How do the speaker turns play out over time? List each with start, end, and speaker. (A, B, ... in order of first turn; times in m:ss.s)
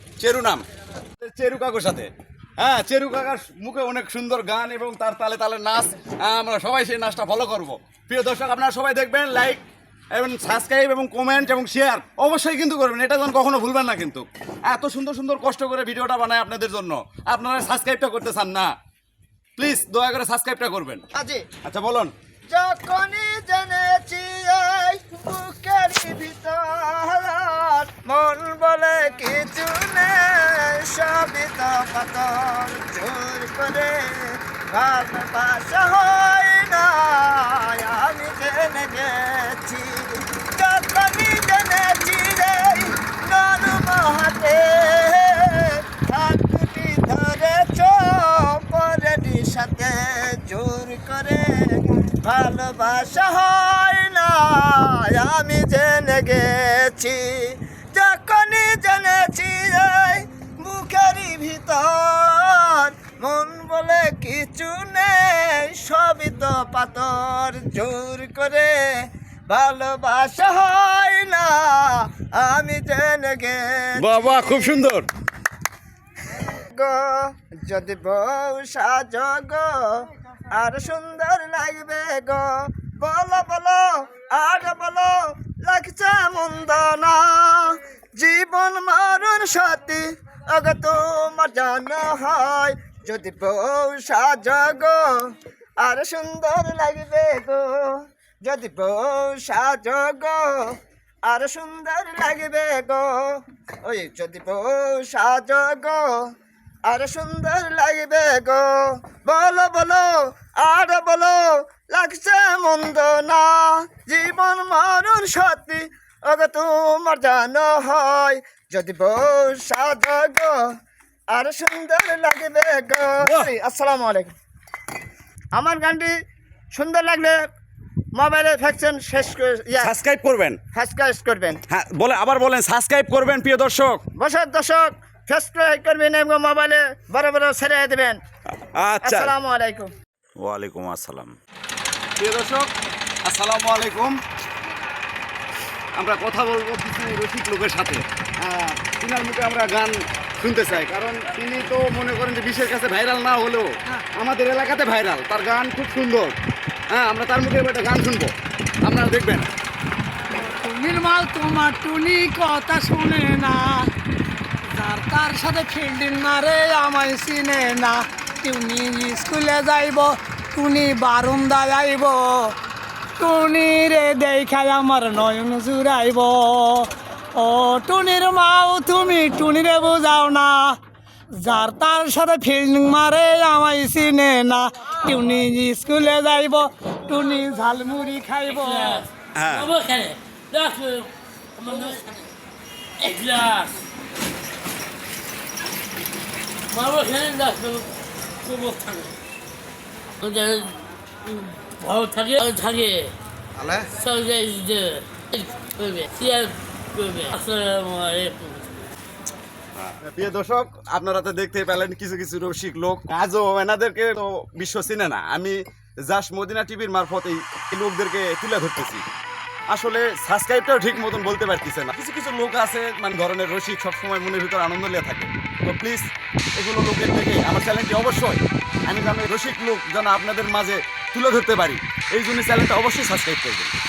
0:00.2-0:00.6 A
0:01.2-0:09.6 A
0:10.1-0:18.7 A
0:19.6-0:21.0 A
0:21.1-0:21.4 B
0:21.6-0:22.1 A
0:22.5-1:08.8 B
1:09.5-1:14.9 B
1:14.0-1:15.1 A
1:16.7-1:20.0 B
1:20.5-1:35.1 B
1:35.8-1:40.7 B
1:41.2-1:46.1 B
1:46.8-2:00.6 B
2:01.3-2:04.3 B
2:03.2-2:03.5 A
2:05.5-2:06.1 B
2:06.7-2:07.4 B
2:08.1-2:09.9 B
2:09.8-2:10.6 A
2:10.7-2:11.6 B
2:11.7-2:14.0 A
2:14.2-2:18.2 B
2:18.6-2:19.3 A
2:19.0-2:19.9 B
2:20.4-2:21.3 A
2:22.2-2:22.7 A
2:23.2-2:24.2 A
2:25.9-2:36.4 A
2:36.9-2:39.5 A
2:40.7-2:43.9 C
2:44.9-2:52.5 C
2:53.2-2:56.9 C
2:57.4-3:00.8 C
3:01.5-3:08.7 C
3:08.5-3:12.3 D
3:09.3-3:09.7 A
3:13.0-3:13.8 D
3:16.7-3:17.9 D
3:18.4-3:19.1 D
3:20.2-3:28.9 D
3:29.8-3:39.0 A
3:39.7-3:53.7 A